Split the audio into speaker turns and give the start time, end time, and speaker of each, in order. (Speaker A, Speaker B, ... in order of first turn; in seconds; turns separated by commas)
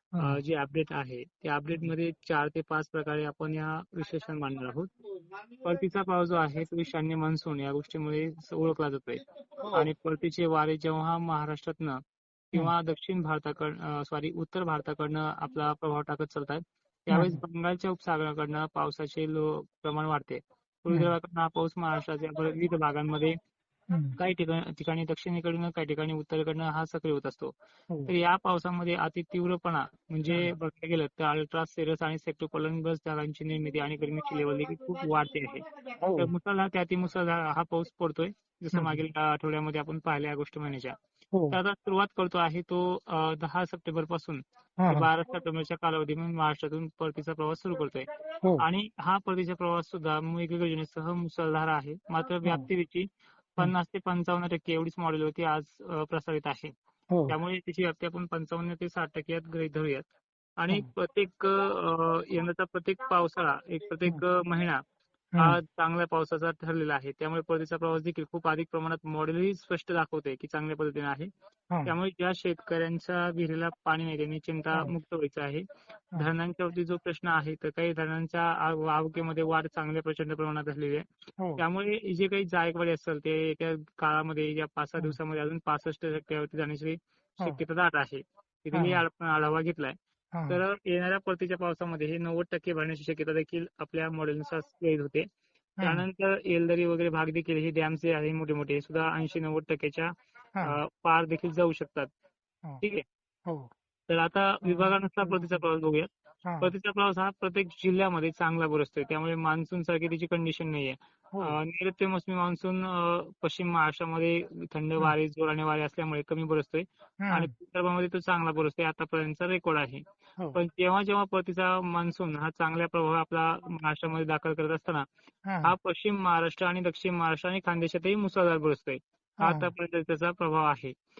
Speaker A: 0.1-0.4, Speaker B: 0.2-4.9, Speaker B: 5.6-12.0, Speaker B: 12.5-23.4, Speaker A: 17.1-17.4, Speaker A: 23.9-24.2, Speaker B: 24.2-27.5, Speaker B: 28.1-35.6, Speaker A: 36.0-36.3, Speaker B: 36.1-41.0, Speaker A: 38.7-39.0, Speaker A: 41.3-41.6, Speaker B: 41.5-56.7, Speaker A: 44.8-45.1, Speaker B: 57.3-60.1, Speaker B: 60.6-64.8, Speaker B: 65.4-71.3, Speaker B: 71.8-75.6, Speaker B: 76.2-81.0, Speaker B: 81.6-90.0, Speaker A: 88.7-89.0, Speaker A: 90.3-90.6, Speaker B: 90.5-95.3, Speaker A: 95.8-96.0, Speaker B: 95.8-100.1, Speaker A: 100.5-100.8, Speaker B: 100.6-102.1, Speaker A: 103.5-103.7, Speaker B: 104.1-106.1, Speaker A: 104.6-105.5, Speaker A: 106.4-106.7, Speaker B: 106.6-125.0, Speaker A: 111.3-111.6, Speaker A: 117.2-117.5, Speaker A: 125.4-125.7, Speaker B: 125.6-130.9, Speaker A: 129.4-129.7